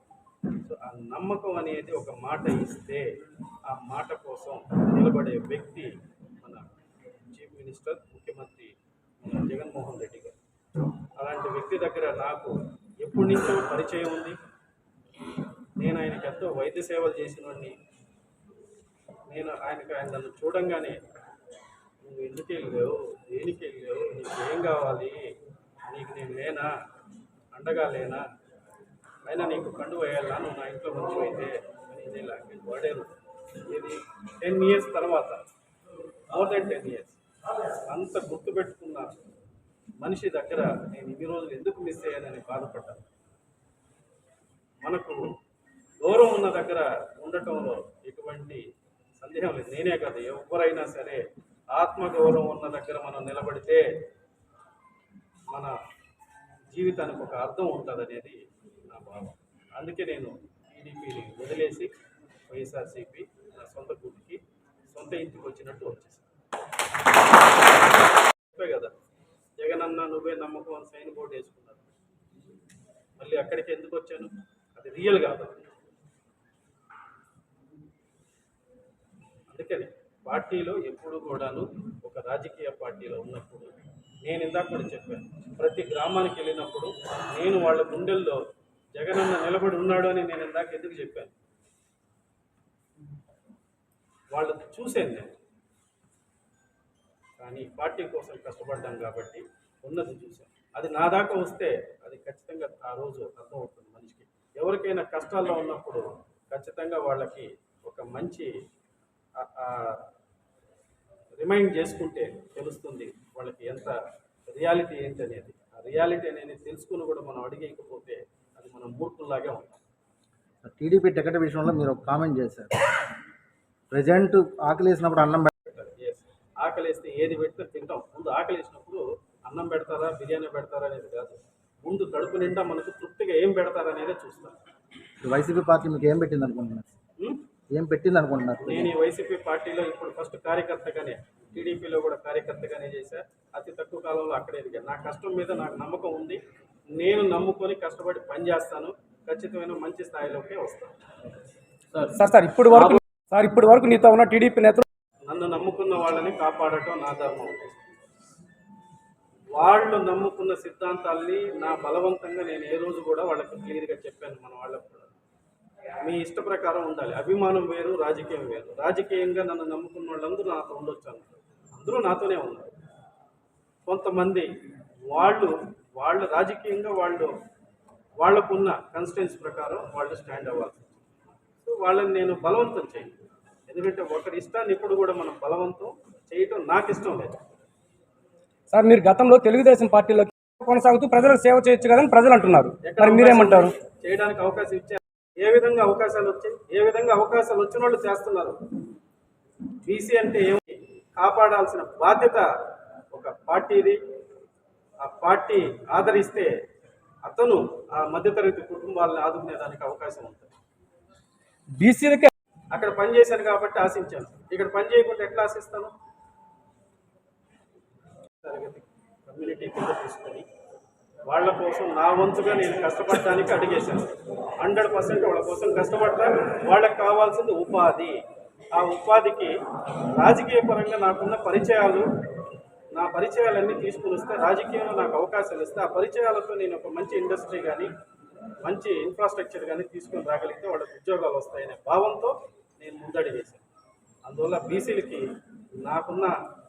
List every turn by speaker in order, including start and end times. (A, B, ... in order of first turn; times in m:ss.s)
0:00.6-0:03.1 A
0:03.7-0:06.7 A
0:07.3-0:10.4 A
0:11.2-0:14.4 A
0:15.8-0:17.8 A
0:19.3-0:21.0 A
0:22.0-0:25.3 A
0:25.9-0:26.7 A
0:27.5-0:28.2 A
0:29.2-0:33.1 A
0:33.7-0:35.4 A
0:36.3-0:37.2 A
0:37.9-0:39.2 A
0:40.0-0:43.0 A
0:44.8-0:45.4 A
0:46.0-0:48.6 A
0:49.2-0:53.9 A
0:56.7-1:01.9 A
1:02.5-1:06.2 A
1:08.5-1:08.9 A
1:09.6-1:11.9 A
1:13.2-1:15.6 A
1:19.5-1:28.4 A
1:28.9-1:31.3 A
1:34.3-1:35.3 A
1:37.4-1:48.5 A
1:49.4-1:50.0 A
1:51.4-1:54.0 A
1:54.5-1:59.8 A
2:00.6-2:02.7 B
2:03.9-2:05.5 B
2:05.7-2:14.6 A
2:15.2-2:16.9 B
2:17.7-2:18.9 B
2:18.6-2:26.4 A
2:26.9-2:30.9 A
2:32.1-2:34.8 C
2:35.3-2:37.8 A
2:39.5-2:45.1 A
2:46.0-2:52.7 A
2:53.8-2:54.5 A
2:55.1-2:57.3 A
2:58.2-3:00.9 A
3:01.6-3:03.1 A
3:03.7-3:07.4 A
3:08.7-3:13.7 C
3:12.8-3:18.6 A
3:19.8-3:22.4 A
3:23.1-3:24.0 A
3:25.0-3:26.5 A
3:27.2-3:30.5 A
3:31.8-3:32.3 C
3:32.7-3:35.9 A
3:38.4-3:40.4 A
3:41.3-3:48.2 A
3:48.7-3:49.5 A
3:50.2-3:52.1 A
3:52.9-3:57.9 A
3:58.6-4:03.7 A
4:04.2-4:05.2 A
4:05.8-4:06.3 A